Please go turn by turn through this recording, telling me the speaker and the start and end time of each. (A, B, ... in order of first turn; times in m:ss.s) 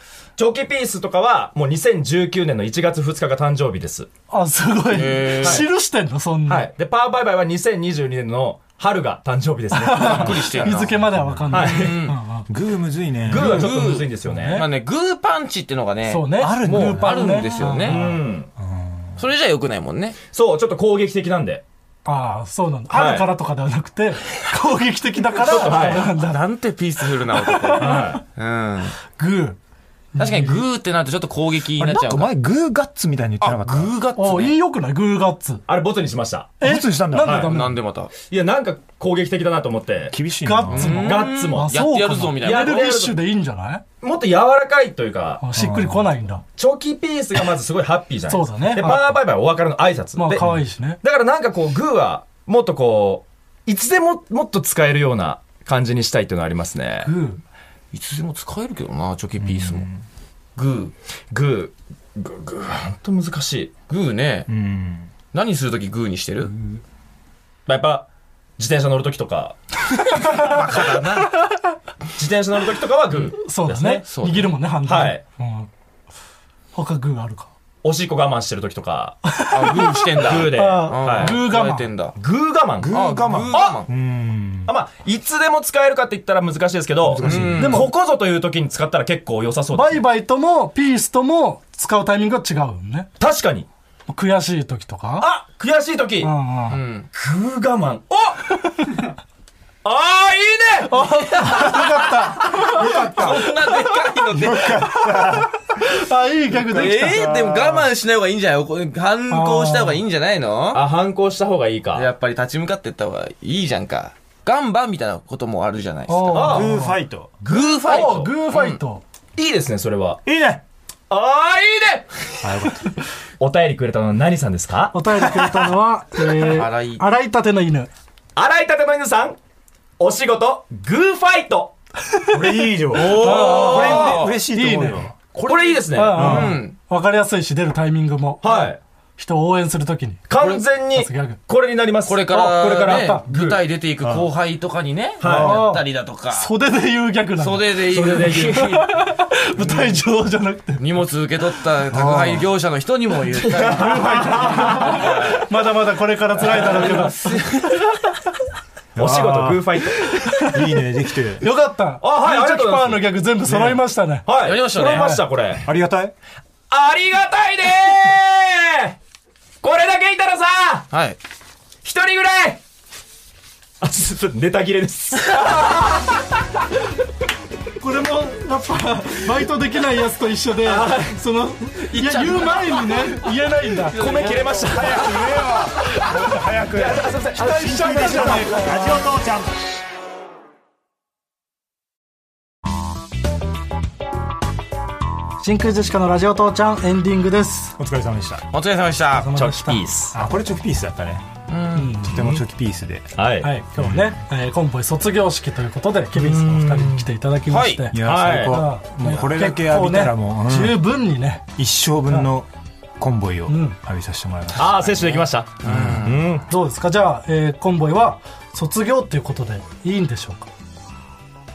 0:00.4-0:04.1 A
0:04.3-0:06.6 B
0:04.9-0:05.6 C
0:06.5-0:10.6 A
0:09.7-0:12.5 B
0:10.0-0:10.9 C
0:10.4-0:11.7 D
0:11.5-0:12.0 A
0:11.5-0:12.2 C
0:12.5-0:13.7 D
0:13.3-0:14.6 A
0:13.3-0:18.0 C
0:13.4-0:13.6 B
0:14.2-0:14.7 B
0:16.1-0:18.0 B
0:16.4-0:19.2 D
0:17.8-0:18.5 A
0:19.2-0:20.2 C
0:20.3-0:21.6 A
0:22.0-0:26.4 B
0:22.9-0:23.3 A
0:25.4-0:26.0 A
0:25.5-0:29.0 C
0:27.3-0:28.2 B
0:27.8-0:28.2 A
0:29.2-0:29.6 B
0:30.2-0:30.6 B
0:30.2-0:32.3 C
0:31.8-0:33.9 D
0:33.4-0:34.5 C
0:34.2-0:35.6 B
0:35.7-0:36.6 A
0:36.6-0:37.8 B
0:36.6-0:37.5 D
0:37.2-0:37.5 A
0:37.5-0:38.1 C
0:38.3-0:40.1 A
0:40.1-0:41.1 D
0:40.4-0:43.8 B
0:40.7-0:43.0 C
0:41.0-0:41.7 A
0:42.4-0:43.2 A
0:44.0-0:45.4 A
0:45.4-0:46.4 B
0:45.5-0:46.1 D
0:46.6-0:50.5 A
0:48.3-0:49.0 B
0:50.2-0:51.0 B
0:51.0-0:57.1 A
0:57.0-0:57.4 B
0:57.9-0:59.9 C
0:59.4-1:00.0 D
1:00.6-1:00.9 C
1:01.3-1:03.7 A
1:03.9-1:04.5 C
1:04.5-1:05.1 D
1:05.3-1:06.5 C
1:06.4-1:06.8 D
1:07.7-1:08.1 A
1:08.6-1:10.4 A
1:10.1-1:10.6 B
1:10.2-1:11.3 C
1:12.1-1:14.0 A
1:13.3-1:15.7 B
1:14.1-1:14.5 C
1:14.8-1:15.2 A
1:16.7-1:17.5 B
1:17.8-1:19.2 A
1:19.2-1:21.9 B
1:19.5-1:22.2 C
1:20.2-1:21.4 A
1:22.2-1:23.0 A
1:22.8-1:24.7 D
1:22.9-1:23.9 C
1:23.5-1:23.8 A
1:24.7-1:30.0 A
1:27.0-1:27.9 D
1:27.2-1:27.9 C
1:27.5-1:27.9 B
1:29.7-1:33.1 B
1:33.2-1:33.7 A
1:34.1-1:35.3 B
1:35.2-1:36.3 A
1:36.2-1:36.8 B
1:36.7-1:37.1 C
1:37.1-1:39.0 A
1:39.8-1:40.9 A
1:40.8-1:47.2 B
1:41.0-1:41.9 C
1:41.5-1:43.5 D
1:42.7-1:44.8 C
1:44.4-1:45.6 D
1:46.7-1:50.8 C
1:46.8-1:47.9 D
1:49.3-1:50.0 B
1:50.7-1:52.1 A
1:51.9-1:56.7 C
1:56.1-1:57.0 B
1:56.3-1:56.7 A
1:56.5-1:57.4 D
1:57.4-1:58.3 A
1:57.5-1:58.8 C
1:57.5-1:59.0 B
1:59.4-2:00.2 A
2:00.2-2:00.6 D
2:01.1-2:02.3 A
2:02.4-2:02.9 D
2:03.4-2:04.9 A
2:04.9-2:07.9 B
2:06.4-2:07.0 C
2:08.4-2:09.4 A
2:10.0-2:11.7 A
2:12.3-2:15.1 D
2:12.5-2:14.2 A
2:12.9-2:14.4 C
2:12.9-2:15.0 B
2:15.3-2:16.5 A
2:15.4-2:16.7 C
2:15.9-2:18.6 B
2:16.1-2:16.6 D
2:18.4-2:18.8 A
2:19.2-2:20.3 B
2:20.3-2:23.6 A
2:20.9-2:21.4 B
2:22.0-2:26.5 C
2:22.3-2:23.2 B
2:24.0-2:24.3 D
2:25.2-2:25.6 A
2:25.3-2:30.8 B
2:27.4-2:29.0 C
2:27.9-2:28.6 A
2:29.6-2:30.0 C
2:30.8-2:35.5 C
2:31.9-2:32.4 D
2:33.3-2:35.4 A
2:33.7-2:37.4 B
2:36.3-2:37.8 C
2:38.9-2:40.1 A
2:39.0-2:39.6 D
2:40.2-2:40.6 B
2:40.4-2:41.4 D
2:41.4-2:44.3 B
2:42.0-2:43.7 A
2:43.5-2:43.8 D
2:44.2-2:45.6 A
2:44.4-2:45.2 C
2:44.8-2:45.2 B
2:45.6-2:46.1 D
2:46.7-2:49.0 A
2:49.6-2:50.8 A
2:50.9-2:51.2 C
2:51.8-2:52.6 A
2:53.8-2:56.2 A
2:57.8-3:04.4 B
3:00.6-3:01.2 A
3:01.8-3:04.9 C
3:03.9-3:05.2 A
3:04.5-3:09.6 D
3:06.7-3:08.6 A
3:07.4-3:09.0 B
3:15.4-3:17.8 B
3:17.8-3:18.4 D
3:18.5-3:19.3 C
3:19.1-3:19.8 B
3:19.3-3:20.1 A
3:20.1-3:21.2 D
3:21.5-3:22.0 C
3:21.7-3:22.4 B
3:22.0-3:23.1 D
3:23.2-3:23.5 A
3:23.4-3:31.4 B
3:23.8-3:24.2 D
3:26.2-3:27.1 A
3:27.5-3:27.8 C
3:27.9-3:30.8 D
3:28.0-3:28.6 A
3:31.6-3:32.5 D
3:33.0-3:36.1 D
3:33.5-3:33.8 B
3:34.5-3:36.4 A
3:35.6-3:36.2 C
3:36.5-3:40.5 B